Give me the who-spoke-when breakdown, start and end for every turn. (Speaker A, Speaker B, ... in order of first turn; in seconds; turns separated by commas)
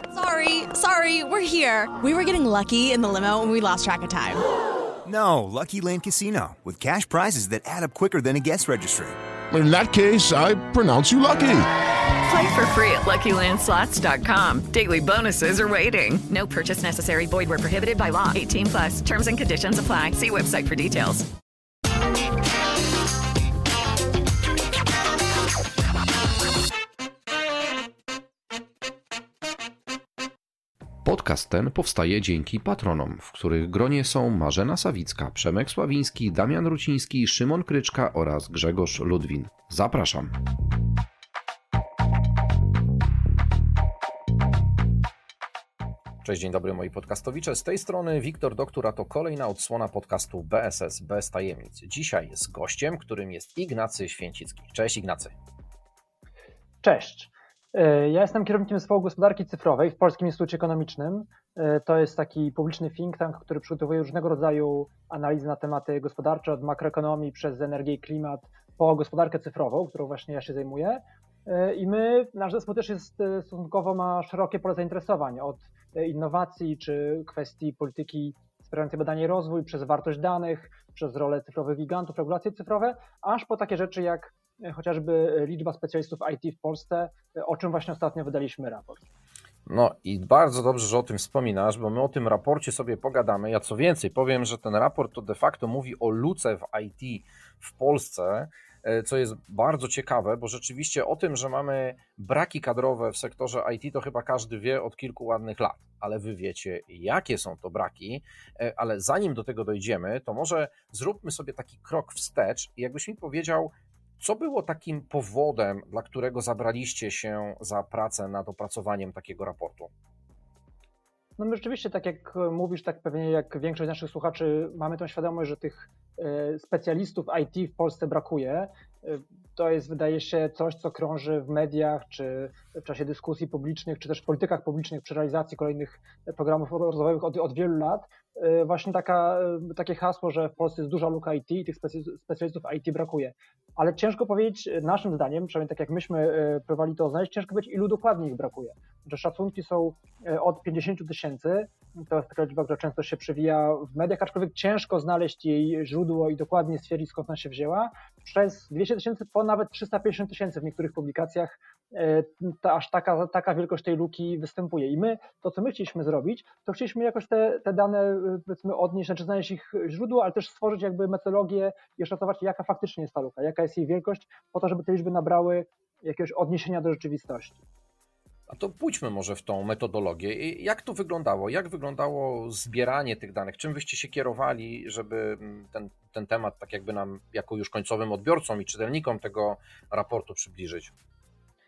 Speaker A: 0.1-4.4, Speaker B: 5.0-9.2, Speaker C: 9.5-11.7, Speaker D: 12.2-21.3, Speaker E: 31.0-40.4, Speaker E: 46.2-55.3, Speaker F: 56.8-89.1, Speaker E: 89.7-119.9, Speaker F: 121.4-177.6, Speaker E: 178.5-190.9